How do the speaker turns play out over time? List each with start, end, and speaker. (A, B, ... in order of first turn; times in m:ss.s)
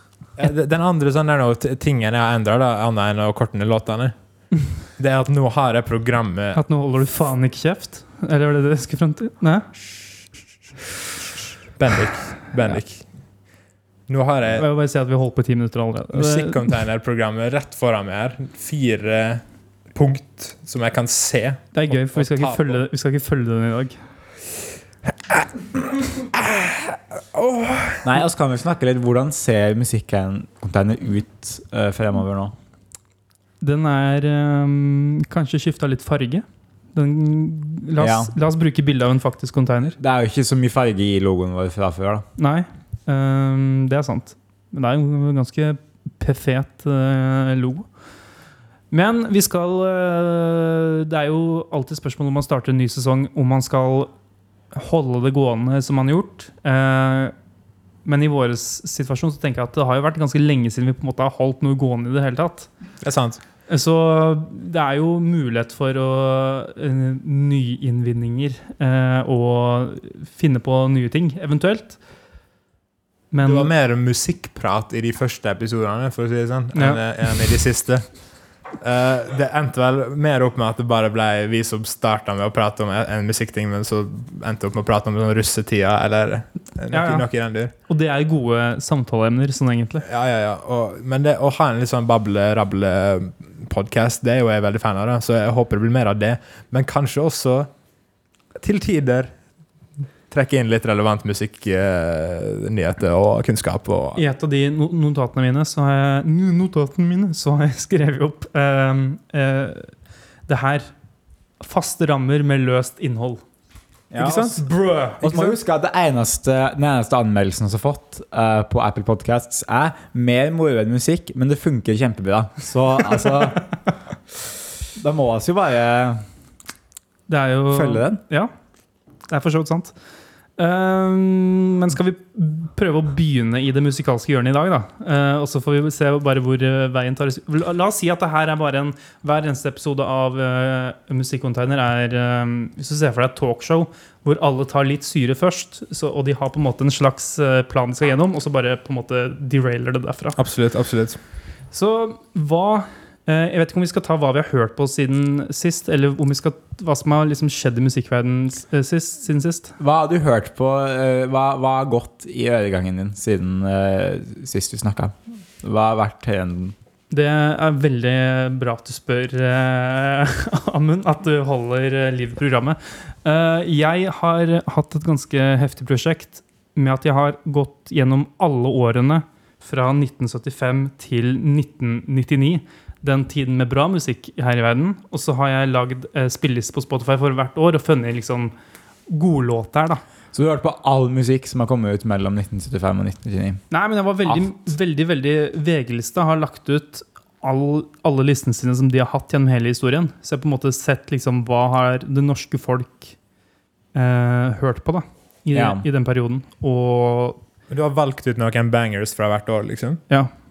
0:00.4-0:04.1 A
0:05.0-0:06.6 A
0:06.5-0:09.7 B
0:11.8-0:13.0 A
0:14.1-0:14.6 A
0:14.5-0:16.8 B
0:16.1-0:19.4 A
0:19.9-0:22.8 A
0:21.7-0:24.0 B
0:25.3-0:28.1 A
0:28.0-0:32.5 C
0:33.6-0:40.0 B
0:38.0-0:38.3 C
0:40.0-0:42.2 C
0:42.4-0:47.8 B
0:48.9-0:54.1 B
0:54.7-0:57.3 B
0:58.0-1:02.7 B
1:03.0-1:03.4 A
1:03.7-1:12.0 B
1:13.3-1:13.7 B
1:13.4-1:18.0 A
1:16.7-1:17.0 B
1:18.8-1:27.7 A
1:26.9-1:27.3 B
1:27.9-1:30.0 B
1:30.0-1:37.7 A
1:38.6-1:39.3 A
1:40.3-1:44.2 A
1:44.2-1:49.9 B
1:50.5-1:50.9 B
1:51.6-1:53.4 B
1:54.1-1:54.6 C
1:54.2-1:55.5 B
1:54.2-1:54.5 A
1:55.2-2:03.7 C
2:05.0-2:06.2 C
2:07.3-2:08.5 B
2:07.7-2:08.2 C
2:09.3-2:09.9 B
2:10.6-2:30.4 B
2:30.4-2:31.2 A
2:31.7-2:39.7 B
2:39.8-2:46.7 C
2:47.1-3:08.5 B
3:09.1-3:10.0 B
3:10.3-3:13.6 C
3:13.7-3:23.1 B
3:23.9-3:27.4 B
3:25.5-3:25.8 C
3:27.7-3:30.0 A